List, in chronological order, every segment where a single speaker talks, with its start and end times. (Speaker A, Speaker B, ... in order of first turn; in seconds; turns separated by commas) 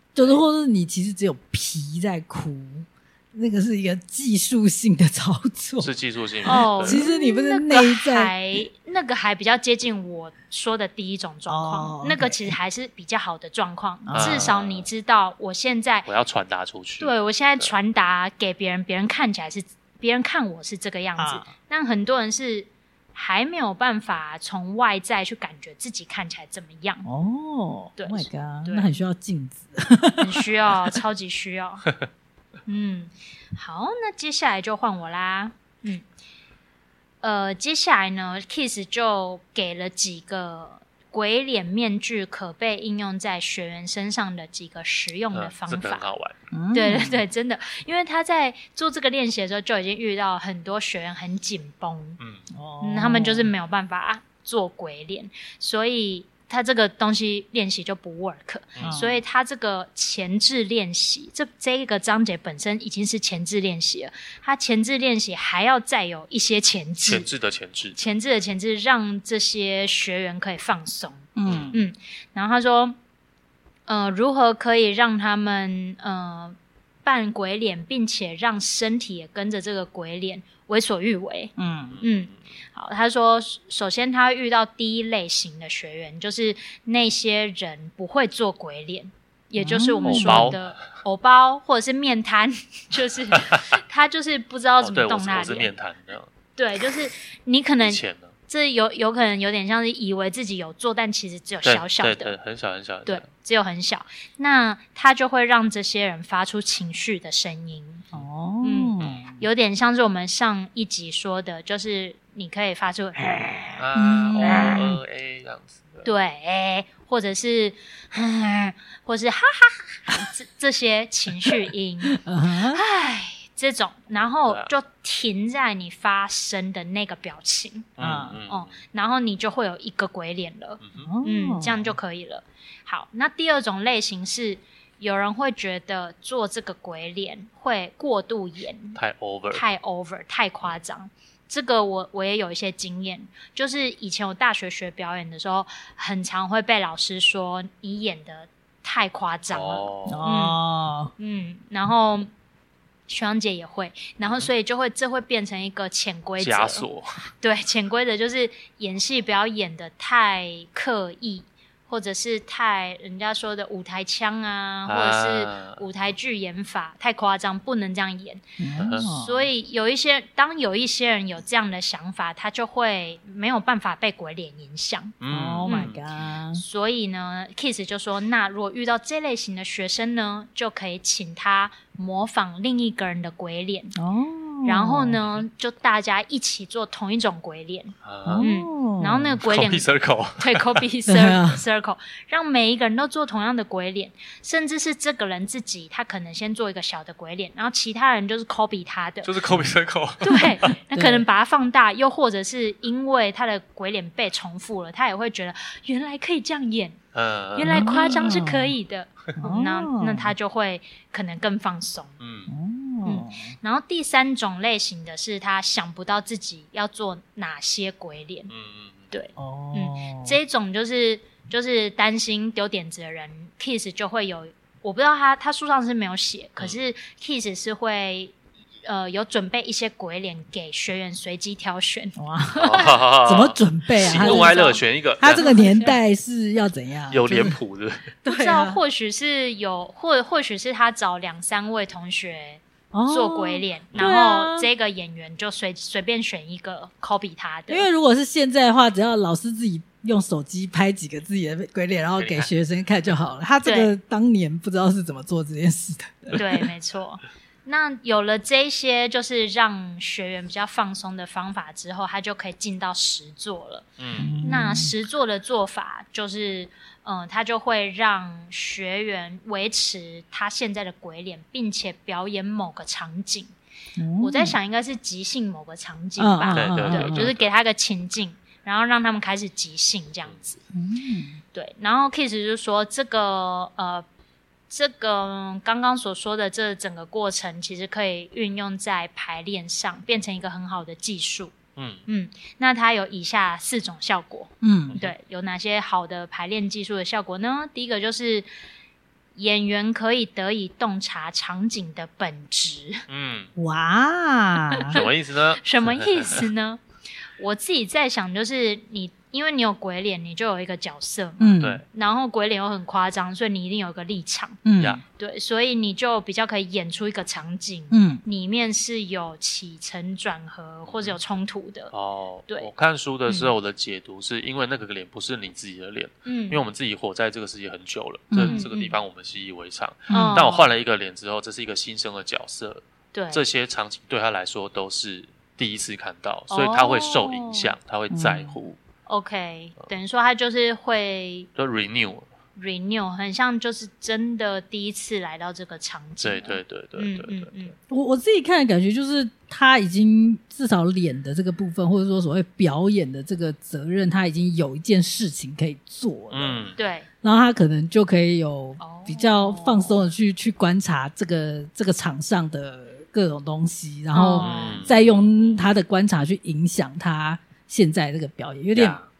Speaker A: 0.1-5.9, Speaker B: 5.8-7.0, Speaker A: 6.4-8.6, Speaker C: 6.4-16.1, Speaker A: 11.5-12.6, Speaker A: 14.1-14.5, Speaker B: 14.1-14.9, Speaker B: 16.1-17.7, Speaker C: 17.0-27.1, Speaker A: 21.2-21.5, Speaker A: 27.1-30.4, Speaker C: 28.0-28.9, Speaker C: 30.2-31.9, Speaker C: 32.7-36.0, Speaker C: 37.2-46.1, Speaker B: 45.3-46.3, Speaker A: 46.5-47.2, Speaker C: 46.7-52.2, Speaker B: 52.2-52.4, Speaker A: 52.5-53.5, Speaker C: 52.8-67.3, Speaker B: 58.8-59.0, Speaker A: 58.8-59.2, Speaker B: 67.0-68.0, Speaker C: 68.0-73.0, Speaker A: 71.3-71.8, Speaker B: 71.5-71.8, Speaker C: 73.9-95.7, Speaker A: 81.6-82.0, Speaker B: 81.9-82.4, Speaker A: 89.6-90.6, Speaker B: 90.0-90.8, Speaker B: 94.8-96.3, Speaker C: 96.6-102.3, Speaker B: 97.8-98.3, Speaker B: 101.6-103.3, Speaker C: 103.1-108.0, Speaker A: 108.1-109.4, Speaker C: 108.6-113.8, Speaker B: 109.0-109.2, Speaker B: 113.8-116.1, Speaker A: 114.0-115.0, Speaker C: 114.4-114.8, Speaker C: 116.0-127.9, Speaker A: 122.2-122.8, Speaker B: 128.0-128.8, Speaker A: 128.0-128.4, Speaker C: 128.5-139.0, Speaker B: 130.8-131.1, Speaker A: 131.0-131.9, Speaker B: 138.9-139.6, Speaker C: 139.5-150.6, Speaker B: 149.5-150.2, Speaker A: 150.1-151.1, Speaker C: 151.2-152.3, Speaker C: 153.1-156.9, Speaker B: 156.4-157.2, Speaker C: 157.4-168.4, Speaker B: 164.9-165.8, Speaker A: 168.6-169.5, Speaker B: 168.8-169.1, Speaker C: 169.0-175.9, Speaker B: 175.2-176.0, Speaker A: 175.3-176.6, Speaker C: 176.5-183.9, Speaker A: 183.9-185.2, Speaker C: 184.6-199.3, Speaker B: 188.0-188.5, Speaker A: 188.2-189.4, Speaker B: 189.4-190.8, Speaker A: 191.1-191.6, Speaker B: 199.2-200.8, Speaker C: 200.2-207.0, Speaker A: 200.9-201.3, Speaker B: 207.1-208.4, Speaker C: 207.6-212.2, Speaker A: 207.6-208.8, Speaker A: 209.4-210.3, Speaker B: 212.2-212.5, Speaker A: 212.5-213.6, Speaker C: 213.1-218.5, Speaker B: 218.5-219.1, Speaker C: 219.1-233.0, Speaker A: 219.4-220.4, Speaker A: 232.2-232.7, Speaker B: 232.6-235.6, Speaker A: 233.2-234.6, Speaker C: 234.0-236.0, Speaker A: 235.2-237.6, Speaker B: 237.1-238.1, Speaker A: 238.2-238.8, Speaker C: 238.3-247.9, Speaker A: 242.9-244.7, Speaker A: 247.7-256.4, Speaker B: 252.2-252.5, Speaker C: 253.7-253.9, Speaker C: 256.3-263.9, Speaker B: 264.0-264.5, Speaker A: 264.2-264.9, Speaker C: 264.4-273.5, Speaker A: 274.0-274.6, Speaker C: 274.2-280.6, Speaker A: 276.2-277.3, Speaker B: 276.5-277.5, Speaker A: 280.7-281.4, Speaker C: 281.5-284.1, Speaker C: 284.7-291.6, Speaker B: 291.8-292.1, Speaker C: 292.1-298.5, Speaker A: 294.6-295.0, Speaker C: 299.4-303.0, Speaker B: 303.1-303.5, Speaker A: 303.6-304.9, Speaker C: 304.7-306.8, Speaker B: 304.9-306.5, Speaker C: 307.4-314.6, Speaker A: 311.4-311.8, Speaker A: 314.6-315.0, Speaker C: 315.1-321.9, Speaker A: 317.9-318.2, Speaker B: 320.9-321.2, Speaker B: 321.9-338.8, Speaker C: 326.3-326.6, Speaker A: 328.3-328.7, Speaker C: 328.4-329.0, Speaker A: 330.1-330.4, Speaker C: 330.1-330.7, Speaker C: 333.1-333.4, Speaker C: 336.5-337.7, Speaker A: 338.1-338.6, Speaker C: 339.1-341.5, Speaker B: 341.6-342.3, Speaker C: 342.6-347.7, Speaker B: 346.2-347.7, Speaker A: 347.9-356.7, Speaker B: 356.3-356.8, Speaker C: 356.8-357.1, Speaker A: 357.2-369.0, Speaker C: 358.8-360.1, Speaker C: 364.1-364.9, Speaker B: 364.4-365.6, Speaker B: 368.7-369.1